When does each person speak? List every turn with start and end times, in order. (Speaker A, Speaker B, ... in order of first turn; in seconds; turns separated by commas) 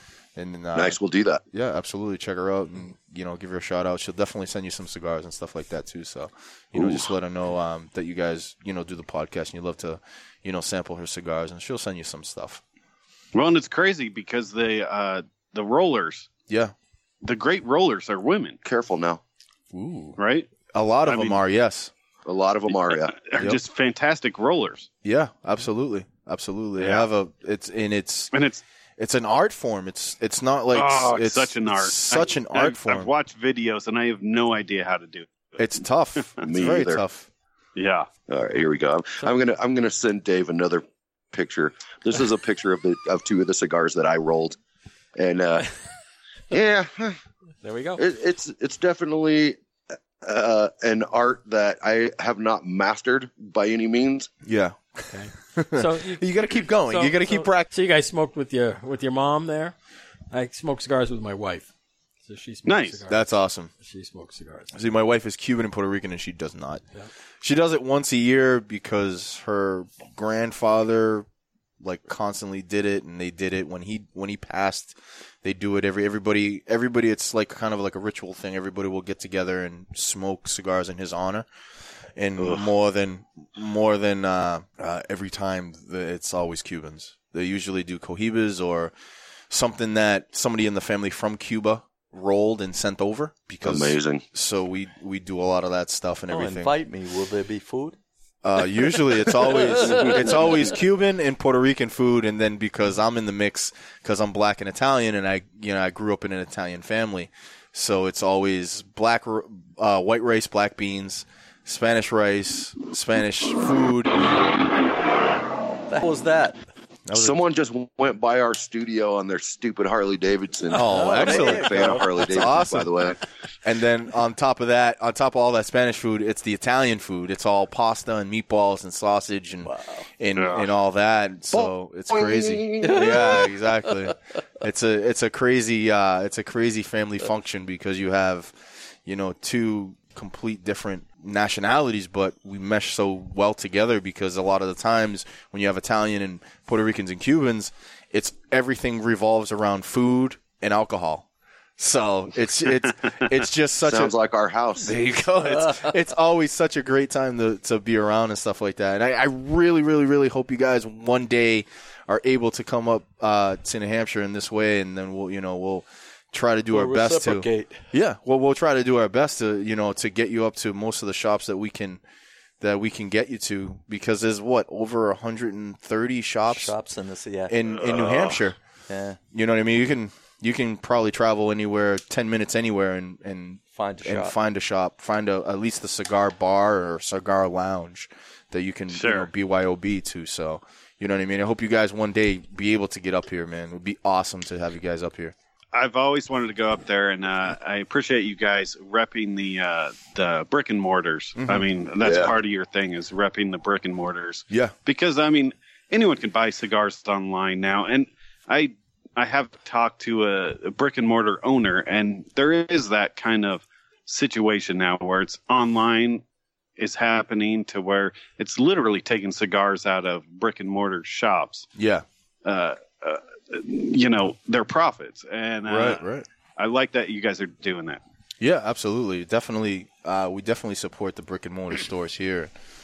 Speaker A: 0.3-1.0, Speaker B: 0.7-1.4, Speaker A: 1.5-12.6, Speaker B: 6.7-7.1, Speaker C: 13.3-16.3, Speaker A: 16.5-16.7, Speaker C: 17.2-18.6, Speaker B: 18.6-19.2, Speaker A: 19.7-20.2, Speaker C: 20.2-20.5, Speaker A: 20.7-21.9, Speaker C: 21.0-21.4, Speaker B: 22.2-23.2, Speaker C: 22.7-24.9, Speaker A: 25.0-28.3, Speaker C: 26.8-27.1, Speaker C: 28.3-28.6, Speaker A: 29.0-33.1, Speaker C: 30.7-35.3, Speaker A: 35.6-37.3, Speaker B: 36.4-37.0, Speaker C: 37.8-38.1, Speaker B: 38.3-44.6, Speaker B: 45.1-45.7, Speaker B: 46.5-47.2, Speaker D: 47.6-48.0, Speaker B: 48.0-49.6, Speaker B: 50.2-54.3, Speaker A: 54.4-57.7, Speaker D: 55.1-56.2, Speaker D: 56.9-59.7, Speaker D: 60.3-61.7, Speaker D: 62.2-64.7, Speaker C: 62.6-63.0, Speaker A: 63.1-63.7, Speaker A: 64.7-66.8, Speaker A: 67.4-71.3, Speaker A: 71.8-81.5, Speaker A: 82.2-88.9, Speaker B: 82.4-82.7, Speaker A: 89.5-96.7, Speaker B: 93.6-94.2, Speaker E: 96.3-98.0, Speaker A: 98.4-114.4, Speaker E: 115.9-116.6, Speaker A: 117.1-117.4, Speaker B: 117.1-123.2, Speaker A: 120.7-151.3, Speaker E: 120.9-122.3, Speaker E: 129.6-130.1, Speaker C: 130.3-130.7, Speaker B: 131.5-133.5, Speaker E: 132.8-133.4, Speaker A: 151.8-154.1, Speaker B: 153.8-155.0, Speaker A: 154.8-172.0, Speaker E: 166.7-167.8, Speaker A: 172.6-176.7, Speaker E: 176.5-177.5, Speaker A: 177.5-178.6, Speaker C: 177.7-178.4, Speaker E: 178.9-179.2, Speaker A: 179.3-195.3, Speaker E: 183.7-184.3, Speaker C: 188.9-189.3, Speaker C: 195.7-216.2, Speaker A: 201.4-201.7, Speaker B: 202.0-202.3, Speaker C: 216.8-221.7, Speaker A: 221.8-222.0, Speaker C: 222.4-226.0, Speaker A: 225.6-226.2, Speaker C: 226.6-228.0, Speaker A: 228.4-232.5